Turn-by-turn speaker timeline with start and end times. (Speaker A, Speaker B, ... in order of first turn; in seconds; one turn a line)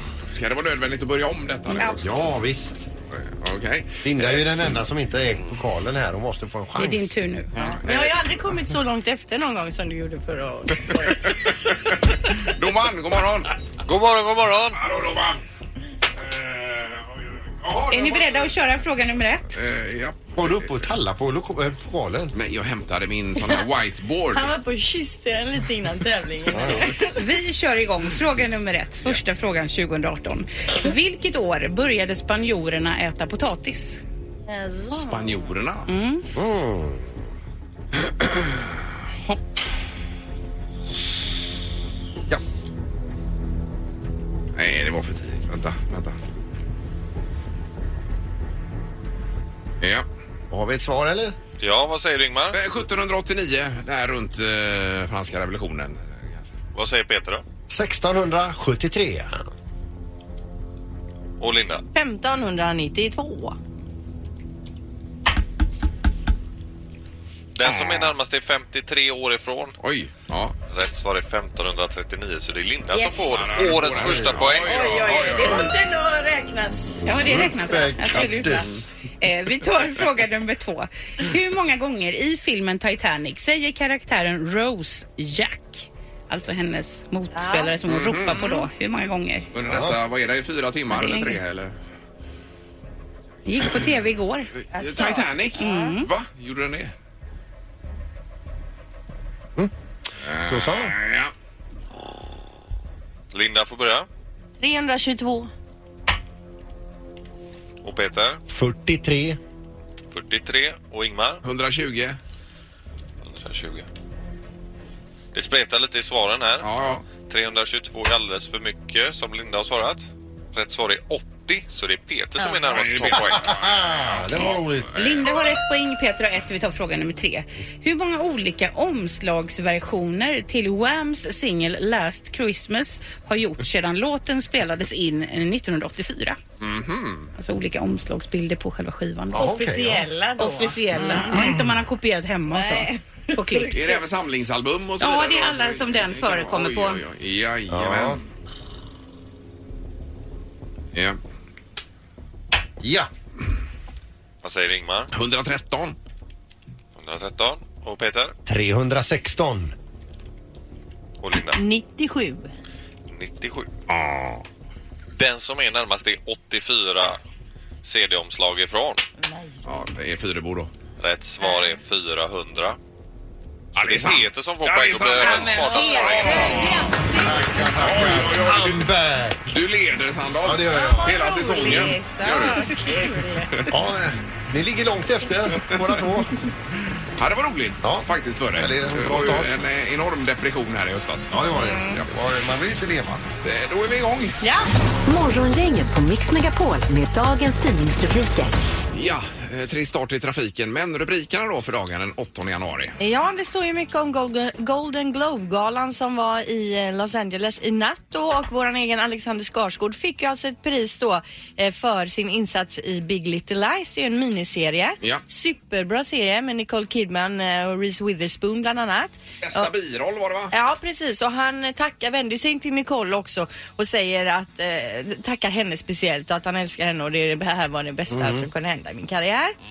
Speaker A: 0.3-2.1
Speaker B: 1.9-2.9
Speaker A: 3.1-4.6
Speaker B: 4.0-7.1
Speaker C: 6.8-7.5
Speaker A: 7.5-8.1
Speaker D: 7.7-11.5
Speaker A: 11.3-13.5
Speaker E: 13.8-14.8
Speaker A: 14.7-15.4
Speaker A: 16.2-18.5
Speaker C: 17.9-19.6
Speaker A: 19.5-20.8
Speaker B: 20.4-22.3
Speaker A: 22.3-24.5
Speaker D: 24.3-27.1
Speaker B: 26.5-26.9
Speaker C: 27.1-34.0
Speaker D: 34.5-35.5
Speaker A: 34.9-35.9
Speaker C: 35.9-36.2
Speaker B: 36.3-37.1
Speaker A: 38.0-39.6
Speaker A: 44.5-46.2
Speaker A: 49.8-50.0
Speaker B: 50.5-51.4
Speaker E: 51.6-52.6
Speaker A: 52.5-56.4
Speaker E: 56.7-57.4
Speaker B: 57.7-59.5
Speaker E: 61.4-61.8
Speaker D: 61.9-63.5
Speaker E: 67.5-69.8
Speaker A: 67.6-68.1
Speaker A: 69.8-70.5
Speaker E: 70.7-74.9
Speaker D: 72.9-73.3
Speaker A: 73.3-75.7
Speaker B: 73.8-74.5
Speaker D: 74.6-77.1
Speaker B: 77.0-78.8
Speaker C: 77.0-89.5
Speaker A: 78.4-78.7
Speaker D: 87.3-87.8
Speaker A: 87.8-88.5
Speaker A: 89.5-91.7
Speaker B: 89.6-90.0
Speaker C: 90.9-91.4
Speaker C: 93.4-94.5
Speaker A: 94.6-96.9
Speaker D: 94.7-95.9
Speaker C: 95.6-96.1
Speaker A: 100.2-101.3
Speaker B: 100.5-100.9
Speaker E: 103.3-104.1
Speaker D: 104.6-105.5
Speaker E: 107.8-108.4
Speaker B: 108.5-109.4
Speaker E: 110.1-111.4
Speaker A: 111.4-112.2
Speaker E: 113.2-113.9
Speaker E: 115.3-116.7
Speaker A: 116.6-117.0
Speaker E: 117.2-123.5
Speaker A: 122.6-125.3
Speaker B: 123.1-125.0
Speaker C: 125.0-136.4
Speaker A: 136.6-137.3
Speaker C: 137.3-139.5
Speaker B: 139.3-140.1
Speaker D: 139.3-141.5
Speaker C: 140.4-144.0
Speaker D: 142.5-144.0
Speaker A: 143.7-148.2
Speaker C: 145.0-147.0
Speaker B: 147.7-148.2
Speaker B: 152.8-153.1
Speaker E: 154.4-155.1
Speaker A: 155.1-155.9
Speaker E: 156.9-158.3
Speaker B: 158.4-159.7
Speaker E: 161.2-161.6
Speaker D: 161.6-162.5
Speaker E: 163.1-163.7
Speaker A: 163.9-164.4
Speaker E: 165.1-167.2
Speaker E: 167.8-169.0
Speaker D: 169.2-169.6
Speaker A: 169.6-170.7
Speaker E: 171.0-172.8
Speaker D: 171.4-171.7
Speaker A: 173.7-176.9
Speaker E: 173.8-176.7
Speaker C: 175.2-176.8
Speaker D: 175.7-177.2
Speaker B: 177.2-179.5
Speaker A: 177.8-178.8
Speaker A: 179.5-182.7
Speaker B: 180.4-181.8
Speaker D: 180.7-183.6
Speaker B: 183.7-186.3
Speaker A: 185.6-185.9
Speaker A: 187.2-192.1
Speaker B: 187.8-189.5
Speaker B: 191.3-193.3
Speaker D: 191.6-192.0
Speaker A: 193.4-194.4
Speaker D: 194.4-194.7
Speaker F: 195.1-198.6
Speaker A: 198.9-203.0
Speaker D: 203.0-219.7
Speaker A: 219.4-220.5
Speaker D: 220.5-229.6
Speaker B: 228.1-228.5